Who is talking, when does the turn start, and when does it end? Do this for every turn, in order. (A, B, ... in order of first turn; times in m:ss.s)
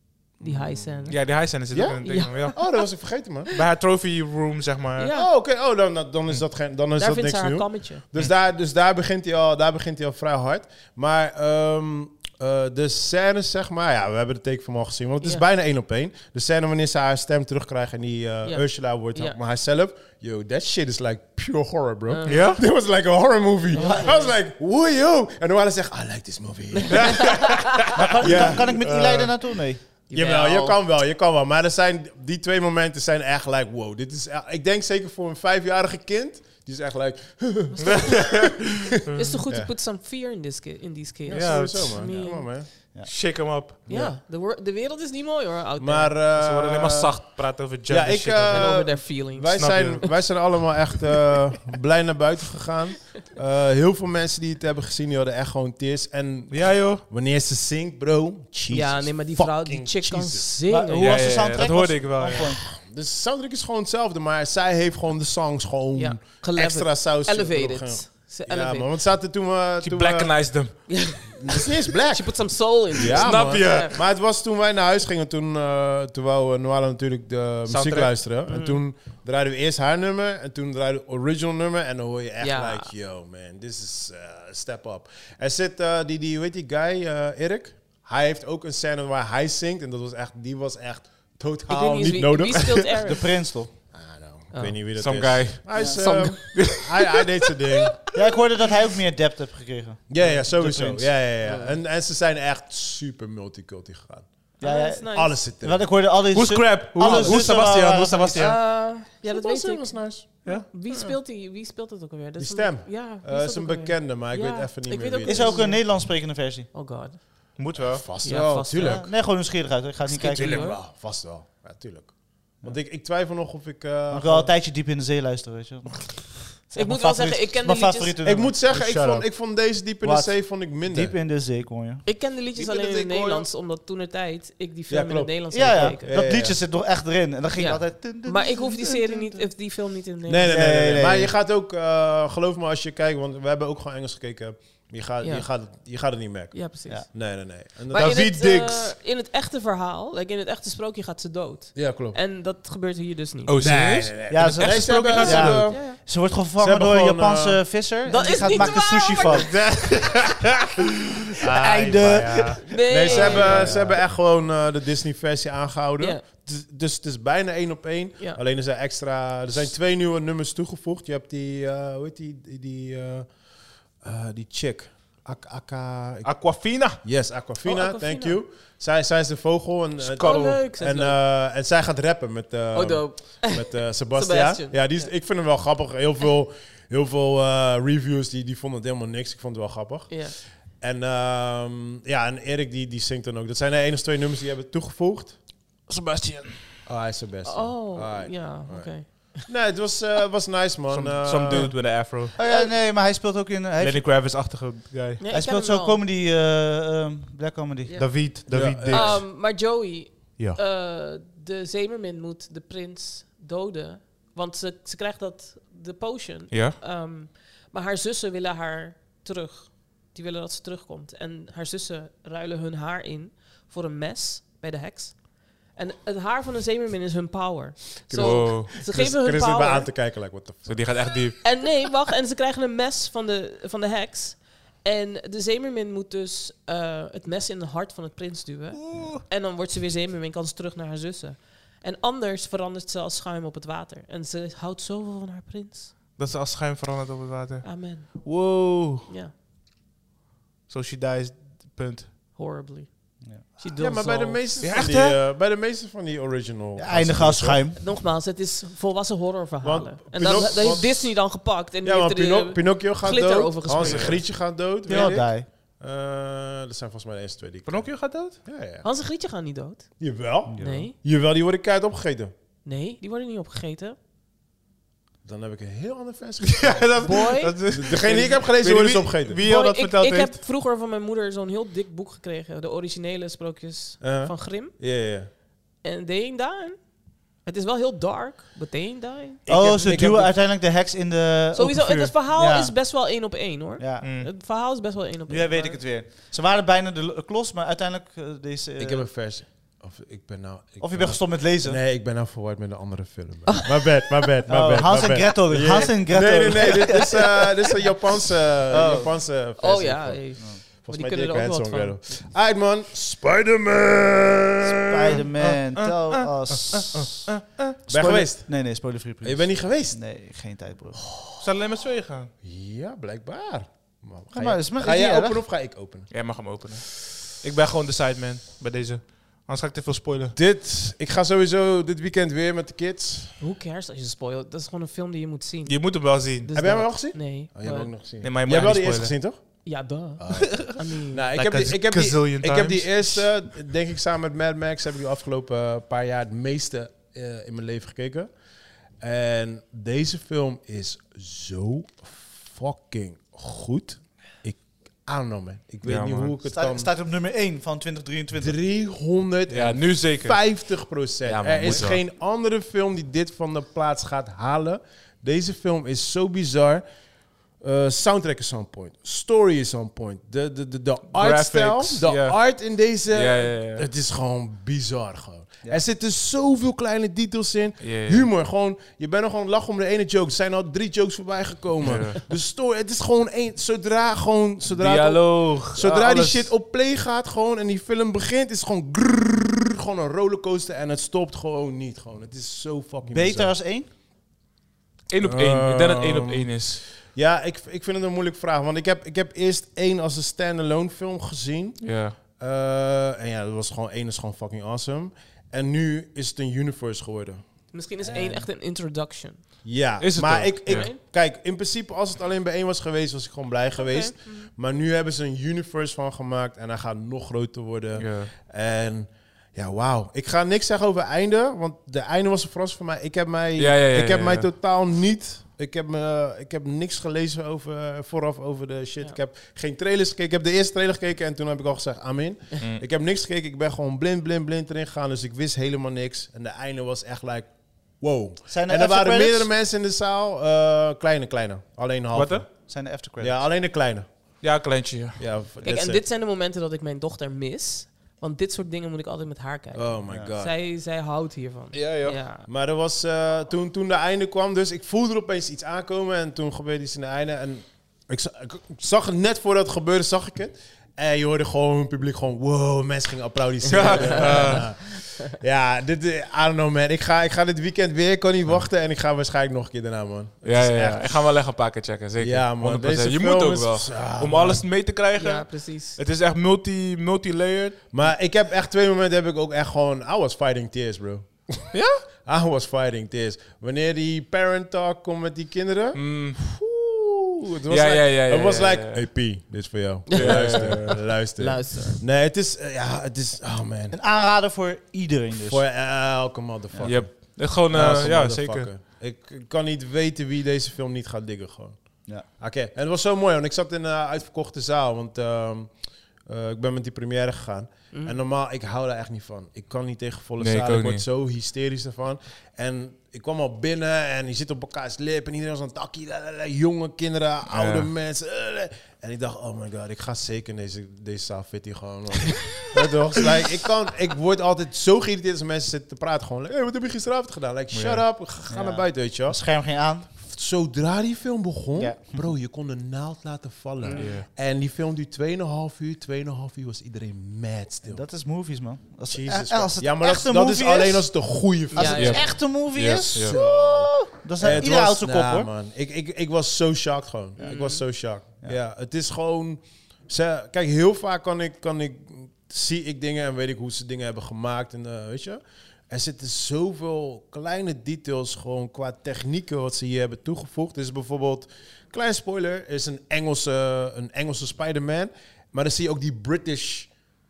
0:00.4-0:00.9 A
0:00.4-0:01.2 B
0:01.1-0:02.6 C
0:01.7-0:03.5 A
0:02.0-0:02.8 B
0:03.5-0:05.1 C
0:05.0-0:05.3 B
0:05.1-0:27.6 A
0:07.0-0:08.0 B
0:18.4-0:19.4 B
0:22.1-0:22.5 B
0:22.2-0:22.6 C
0:23.7-0:24.3 B
0:23.7-0:24.1 D
0:26.9-0:27.6 B
0:27.9-0:29.8 D
0:28.2-0:28.8 A
0:28.2-0:29.3 C
0:30.1-0:30.8 B
0:30.1-0:38.7 A
0:37.7-0:38.0 B
0:37.8-0:39.4 C
0:39.1-0:42.6 B
0:41.3-0:42.7 A
0:41.3-0:42.1 C
0:43.0-0:43.8 C
0:43.8-0:46.1 B
0:43.9-0:44.2 A
0:45.8-0:47.3 A
0:46.3-0:48.9 C
0:47.9-1:00.5 A
0:48.5-0:50.0 B
0:49.5-0:50.1 C
0:56.5-0:57.0 C
0:58.7-1:01.5 B
1:00.7-1:02.6 D
1:00.9-1:02.5 C
1:02.3-1:32.9 A
1:05.9-1:08.9 B
1:09.8-1:11.1 C
1:10.9-1:14.0 B
1:13.0-1:13.9 C
1:17.7-1:18.1 C
1:18.5-1:18.8 B
1:22.4-1:22.9 B
1:31.7-1:33.4 B
1:33.0-1:33.7 D
1:33.9-1:38.0 A
1:34.9-1:36.0 C
1:35.7-1:36.0 D
1:35.8-1:36.8 B
1:36.5-1:36.9 C
1:38.1-1:41.2 D
1:40.1-1:44.4 A
1:41.4-1:41.8 B
1:44.6-1:45.4 B
1:44.6-1:48.6 D
1:45.1-1:46.0 A
1:46.3-1:48.6 C
1:47.0-1:47.6 B
1:48.3-1:57.6 B
1:49.2-1:51.1 A
1:52.4-1:55.6 A
1:55.2-1:56.7 D
1:57.6-1:58.0 C
1:57.7-1:59.1 A
1:58.2-1:59.1 B
1:58.7-2:00.8 D
2:00.0-2:00.8 B
2:00.3-2:04.5 A
2:04.1-2:09.1 D
2:06.7-2:08.1 B
2:08.2-2:11.1 A
2:08.7-2:09.2 C
2:10.0-2:12.0 D
2:12.0-2:16.1 B
2:12.6-2:13.4 C
2:14.9-2:16.6 A
2:15.5-2:19.5 D
2:17.6-2:20.5 B
2:20.2-2:28.3 A
2:20.4-2:21.3 D
2:25.2-2:25.5 B
2:26.5-2:27.2 B
2:27.9-2:33.5 B
2:27.9-2:28.9 C
2:31.7-2:32.2 A
2:33.4-2:35.7 C
2:33.6-2:37.6 A
2:34.3-2:39.6 D
2:35.5-2:36.0 B
2:38.0-2:39.5 B
2:39.3-2:40.4 C
2:41.4-2:56.4 A
2:41.5-2:43.9 D
2:42.7-2:43.7 B
2:43.1-2:44.0 C
2:56.2-2:57.0 C
2:57.0-3:15.4 A
2:57.6-2:58.4 B
3:00.1-3:01.2 B
3:00.2-3:00.5 C
3:02.7-3:05.1 B
3:10.1-3:10.4 B
3:15.9-3:16.8 C
3:16.8-3:21.7 A
3:17.4-3:19.4 B
3:20.9-3:22.3 C
3:22.3-3:24.1 D
3:22.4-3:22.7 B
3:23.8-3:25.2 C
3:25.2-3:26.0 B
3:25.3-3:28.2 D
3:27.8-3:28.3 B
3:28.0-3:29.5 C
3:28.5-3:29.2 A
3:28.8-3:49.9 B
3:36.5-3:36.8 C
3:48.1-3:51.1 A
3:48.1-3:48.7 C
3:50.6-3:51.4 C
3:51.4-4:05.9 B
3:58.7-3:59.2 C
4:06.1-4:09.1 C
4:07.6-4:08.4 B
4:09.0-4:09.3 B
4:10.7-4:12.1 C
4:12.3-4:14.4 B
4:13.6-4:17.6 A
4:14.6-4:15.2 C
4:16.8-4:17.8 D
4:17.8-4:24.2 B
4:19.6-4:28.8 A
4:23.7-4:24.2 C
4:24.8-4:25.5 D
4:27.6-4:28.4 C
4:28.8-4:30.9 B
4:30.0-4:32.3 A
4:30.5-4:30.9 D
4:32.6-4:34.0 B
4:35.2-4:37.0 A
4:36.5-4:40.3 C
4:37.0-4:37.6 B
4:37.6-4:39.4 A
4:39.4-4:44.7 B
4:44.0-4:45.3 A
4:45.8-4:49.7 B
4:49.4-4:50.3 A
4:49.5-4:52.7 D
4:51.5-4:55.8 B
4:53.8-4:54.0 D
4:54.0-4:54.3 C
4:55.3-4:59.1 D
4:58.8-5:15.2 A
5:00.8-5:01.8 D
5:04.5-5:07.2 D
5:08.7-5:09.2 D
5:09.6-5:12.0 B
5:14.6-5:17.3 D
5:15.4-5:17.7 C
5:17.8-5:21.0 D
5:17.9-5:18.6 A
5:19.2-5:20.2 A
5:21.0-5:21.4 A
5:21.4-5:22.3 C
5:22.4-5:26.5 A
5:24.3-5:25.4 D
5:26.1-5:30.4 C
5:30.3-5:33.4 A
5:33.4-5:38.0 B
5:35.6-5:36.5 C
5:36.5-5:48.3 A
5:38.2-5:39.2 C
5:39.6-5:41.3 B
5:41.3-5:43.3 C
5:49.0-5:56.9 A
5:55.8-5:56.3 C
5:56.4-5:58.6 D
5:58.3-6:06.8 A
5:59.5-6:00.6 C
6:01.2-6:02.0 C
6:07.5-6:33.5 A
6:11.1-6:12.4 C
6:13.1-6:13.9 C
6:17.8-6:18.3 C
6:21.8-6:22.2 C
6:24.7-6:26.5 C
6:33.1-6:33.9 D
6:35.1-6:36.8 C
6:35.2-6:47.5 A
6:41.8-6:42.2 C
6:47.7-6:49.5 B
6:48.0-6:48.4 A
6:49.6-7:24.4 A
6:50.0-6:50.9 C
6:50.7-6:51.0 B
6:53.8-6:54.5 B
6:58.0-6:58.3 C
7:03.6-7:04.5 C
7:18.5-7:19.5 D
7:22.1-7:22.4 C
7:22.6-7:23.5 D
7:24.4-7:25.3 C
7:25.2-7:26.0 A
7:25.6-7:32.4 B
7:29.7-7:30.5 A
7:31.7-7:32.2 C
7:32.4-7:51.3 A
7:43.7-7:44.7 C
7:44.2-7:44.5 B
7:50.4-7:58.1 C
7:52.2-7:54.6 A
7:55.1-7:56.0 B
7:57.9-8:01.7 A
8:01.7-8:02.0 C
8:02.2-8:14.0 A
8:05.9-8:06.4 C
8:07.7-8:09.1 C
8:10.1-8:12.0 B
8:10.1-8:11.0 C
8:13.9-8:15.7 D
8:15.5-8:49.5 A
8:16.7-8:17.0 D
8:16.8-8:18.7 C
8:30.4-8:31.0 C
8:37.5-8:37.9 C
8:47.7-8:48.0 C
8:48.5-8:50.1 D
8:50.1-8:58.1 A
8:51.7-8:52.3 D
8:53.8-8:54.2 B
8:53.9-8:54.2 C
8:57.8-9:05.5 D
8:59.1-9:26.9 A
9:01.7-9:02.4 B
9:02.0-9:03.4 C
9:07.4-9:07.8 B